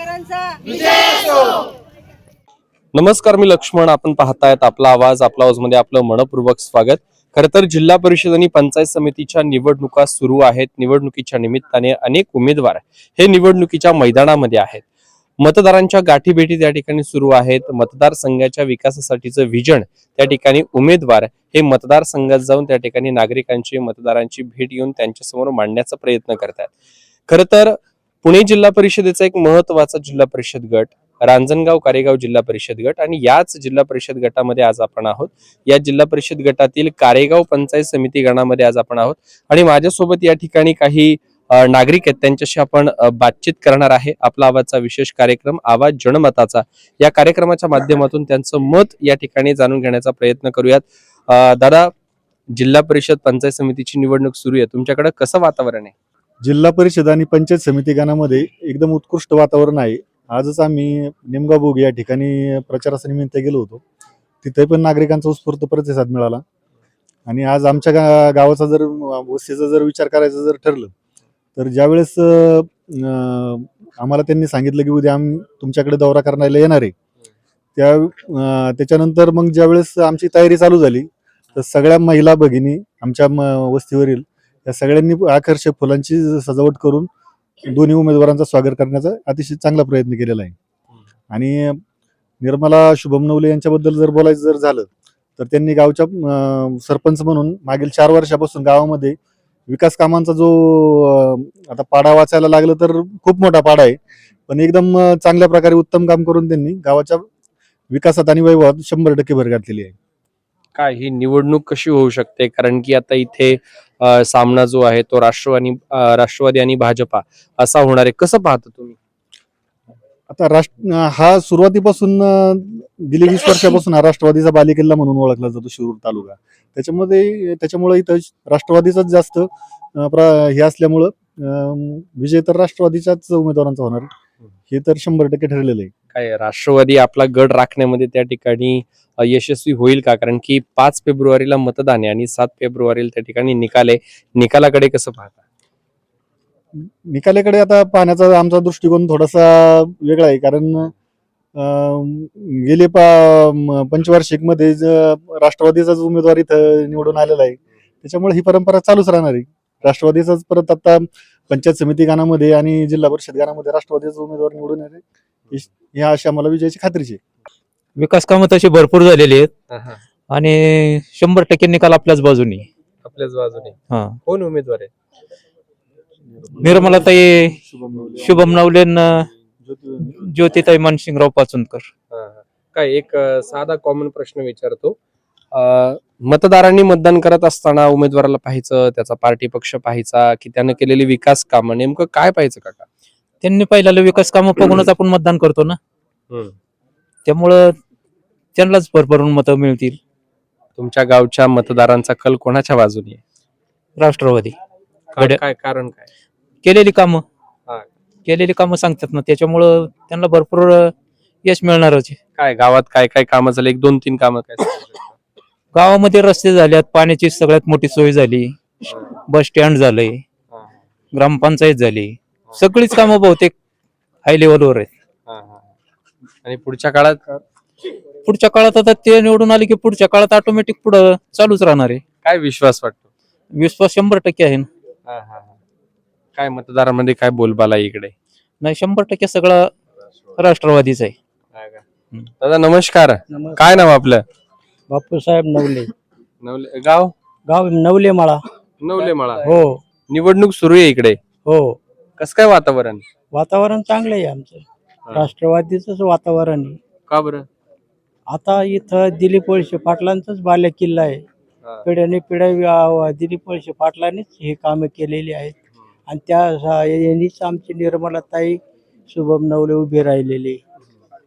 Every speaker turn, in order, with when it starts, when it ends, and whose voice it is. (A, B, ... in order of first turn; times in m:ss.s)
0:02.9-0:14.8 A
0:15.4-0:26.7 A
0:27.3-0:51.9 A
0:52.6-0:55.9 A
0:56.4-1:03.8 B
1:04.4-1:06.4 B
1:07.2-1:10.9 B
1:11.6-1:16.9 B
1:17.8-1:27.1 B
1:27.6-1:30.5 B
1:31.3-1:31.8 B
1:32.4-1:39.2 B
1:39.7-1:47.2 B
1:47.9-1:49.9 B
1:50.8-1:59.0 A
2:00.3-2:14.1 B
2:14.7-2:15.9 B
2:16.1-2:25.4 A
2:26.8-2:30.9 B
2:31.6-2:47.2 B
2:48.0-2:49.5 C
2:49.7-2:50.0 A
2:50.3-2:52.7 C
2:53.0-2:54.9 A
2:53.9-2:54.2 C
2:56.3-2:58.6 B
2:56.6-2:57.5 C
2:58.3-2:59.2 C
2:59.6-3:00.3 B
3:00.2-3:01.9 C
3:02.1-3:05.0 A
3:05.5-3:12.8 A
3:13.4-3:15.8 C
3:17.2-3:17.7 C
3:18.6-3:20.0 C
3:20.8-3:23.2 A
3:24.0-3:24.5 C
3:25.1-3:26.0 A
3:26.6-3:27.2 C
3:28.2-3:30.9 C
3:31.4-3:32.2 C
3:32.4-3:35.2 A
3:35.7-3:38.6 C
3:39.3-3:40.2 C
3:40.5-3:40.8 A
3:41.1-3:43.5 C
3:44.2-3:44.9 C
3:45.3-3:45.7 A
3:46.4-3:47.2 A
3:48.2-3:52.0 C
3:52.2-3:53.1 A
3:53.5-3:54.7 C
3:55.1-3:55.6 A
3:56.4-3:58.1 A
3:58.6-3:59.7 C
4:00.4-4:01.1 C
4:01.5-4:01.8 A
4:02.4-4:04.2 A
4:03.3-4:04.0 D
4:04.9-4:05.9 D
4:06.4-4:07.1 A
4:07.5-4:08.4 D
4:08.8-4:09.4 A
4:09.4-4:09.7 D
4:10.1-4:11.2 A
4:11.5-4:11.8 D
4:12.2-4:13.0 A
4:13.3-4:14.6 D
4:15.1-4:16.8 D
4:17.1-4:17.4 A
4:18.3-4:21.2 D
4:21.8-4:25.5 D
4:26.1-4:30.6 D